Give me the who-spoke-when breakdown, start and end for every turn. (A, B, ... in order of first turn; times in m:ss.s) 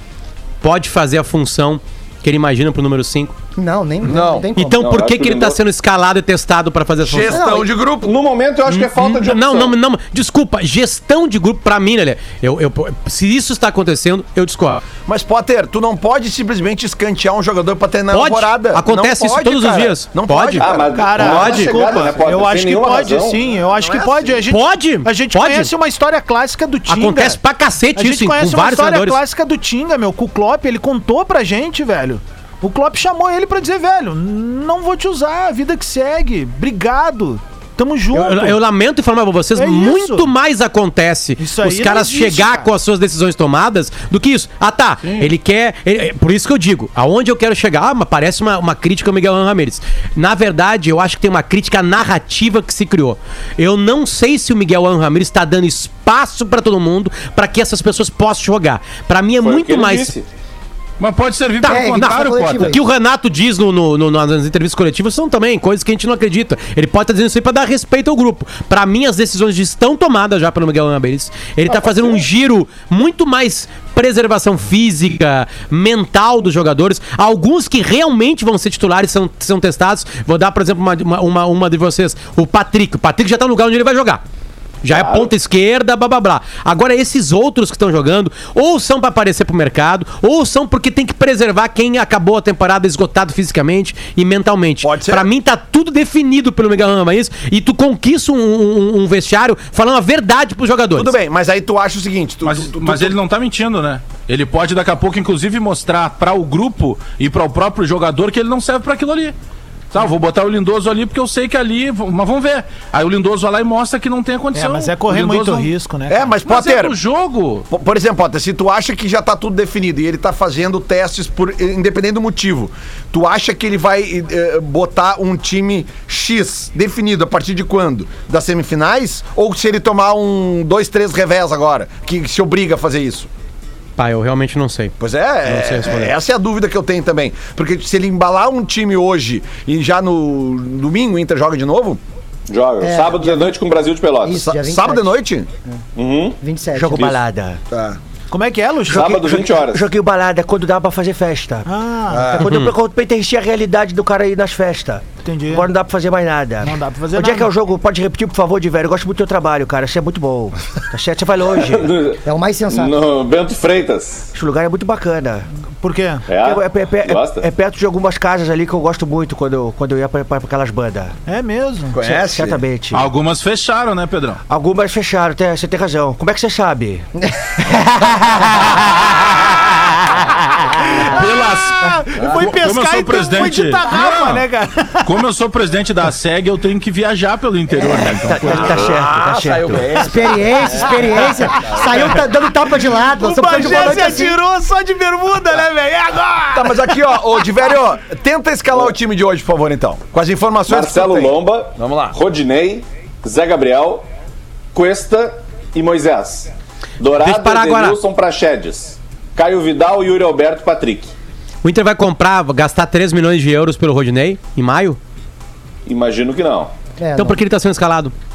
0:00.6-0:03.3 A
0:03.6-0:04.8 B
0:04.0-0:04.5 C
0:04.5-0:07.4 A
0:04.8-0:05.6 D
0:07.0-0:08.1 C
0:07.3-0:07.7 B
0:08.0-0:09.7 D
0:08.7-0:14.8 A
0:15.0-0:21.2 C
0:18.1-0:20.6 A
0:20.6-0:23.5 D
0:20.9-0:27.4 E
0:21.2-0:21.8 A
0:23.6-0:24.4 C
0:24.5-0:25.7 A
0:26.9-0:29.2 A
0:28.0-0:38.6 E
0:38.1-1:00.1 A
0:39.5-0:40.3 E
0:41.4-0:42.7 E
0:45.0-0:45.3 F
0:59.4-1:00.2 D
1:01.0-1:02.7 F
1:01.6-1:24.2 A
1:01.6-1:02.8 B
1:24.8-1:41.1 A
1:24.9-1:25.3 D
1:34.8-1:35.3 C
1:40.9-1:43.2 C
1:42.4-1:49.3 F
1:49.9-1:55.7 F
1:54.5-1:56.3 E
1:56.1-1:57.0 C
1:56.4-1:57.6 F
1:57.7-2:13.3 C
2:14.0-2:14.9 A
2:15.0-2:22.0 C
2:15.4-2:16.1 A
2:22.5-2:24.4 D
2:22.8-2:23.5 B
2:24.2-2:25.8 B
2:24.3-2:25.5 C
2:26.0-2:26.4 D
2:26.4-2:27.1 B
2:26.7-2:27.6 G
2:27.7-2:28.0 C
2:28.3-2:29.1 E
2:28.9-2:31.7 G
2:28.9-2:29.8 D
2:31.6-2:32.3 E
2:32.1-2:32.5 C
2:32.2-2:42.0 G
2:32.4-2:32.7 A
2:35.2-2:35.7 E
2:36.6-2:37.5 E
2:41.6-2:44.3 D
2:42.2-2:42.9 B
2:44.3-2:45.4 G
2:45.8-2:46.3 E
2:46.3-2:47.4 D
2:46.4-2:51.2 G
2:51.2-2:52.0 E
2:51.9-2:52.6 C
2:52.0-2:53.1 G
2:52.9-2:54.4 F
2:54.5-2:57.0 G
3:01.0-3:01.2 E
3:01.0-3:04.5 F
3:01.8-3:05.1 E
3:05.0-3:08.9 F
3:08.2-3:09.9 G
3:08.5-3:11.9 C
3:09.9-3:14.4 B
3:11.3-3:11.7 E
3:13.0-3:17.0 E
3:16.5-3:22.2 C
3:20.7-3:24.0 D
3:24.7-3:31.1 D
3:27.2-3:28.0 A
3:31.6-3:35.0 A
3:35.8-3:36.7 D
3:37.0-3:37.4 B
3:37.2-3:38.1 A